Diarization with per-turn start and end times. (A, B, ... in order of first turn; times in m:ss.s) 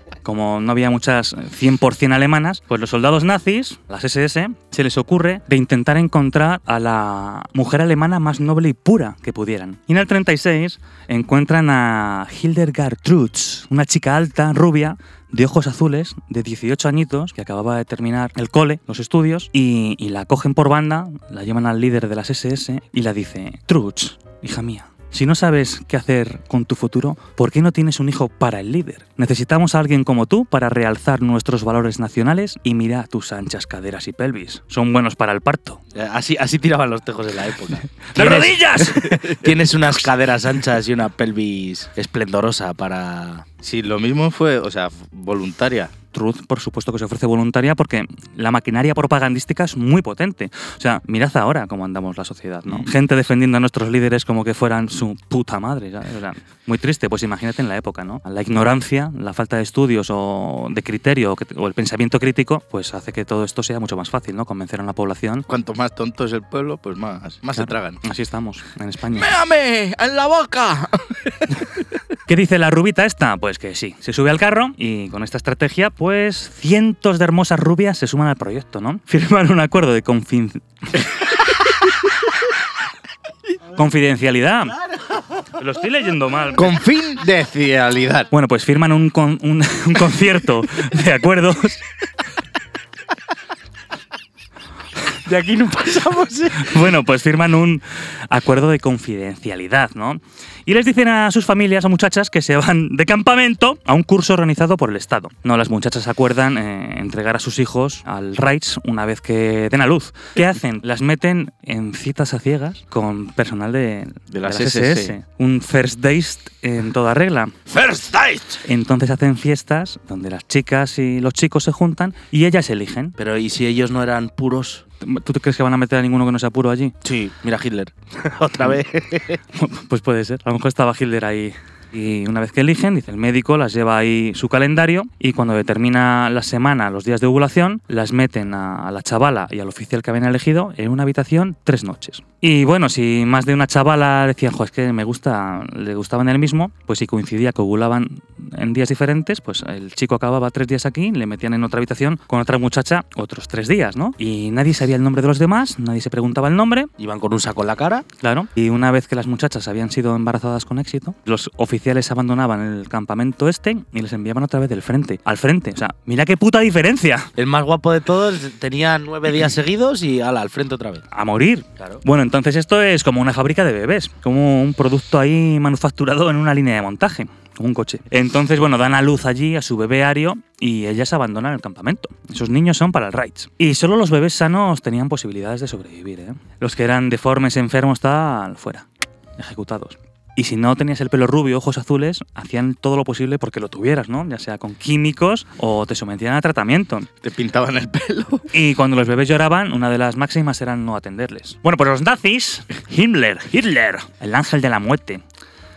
0:00.2-0:35.8 A
0:36.0-0:43.4 B
0:38.1-0:39.3 A
0:43.6-0:45.9 C
0:46.1-1:05.5 A
1:05.5-1:08.0 C
1:07.6-1:09.3 A
1:09.2-1:11.5 C
1:12.3-1:21.2 A
1:23.8-1:24.8 A
1:25.6-1:26.8 A
1:26.6-1:28.3 C
1:28.3-1:31.8 A
1:35.3-1:36.8 B
1:36.6-1:57.6 A
1:54.3-1:55.1 B
1:57.7-1:58.6 B
1:58.6-2:03.2 A
2:03.2-2:04.8 B
2:05.0-2:07.0 A
2:07.0-2:09.4 B
2:09.6-2:36.9 A
2:37.0-2:38.1 B
2:38.2-2:47.3 A
2:47.4-2:51.0 B
2:51.1-3:08.9 A
3:09.4-3:17.1 A
3:17.2-3:18.5 C
3:18.5-3:25.2 A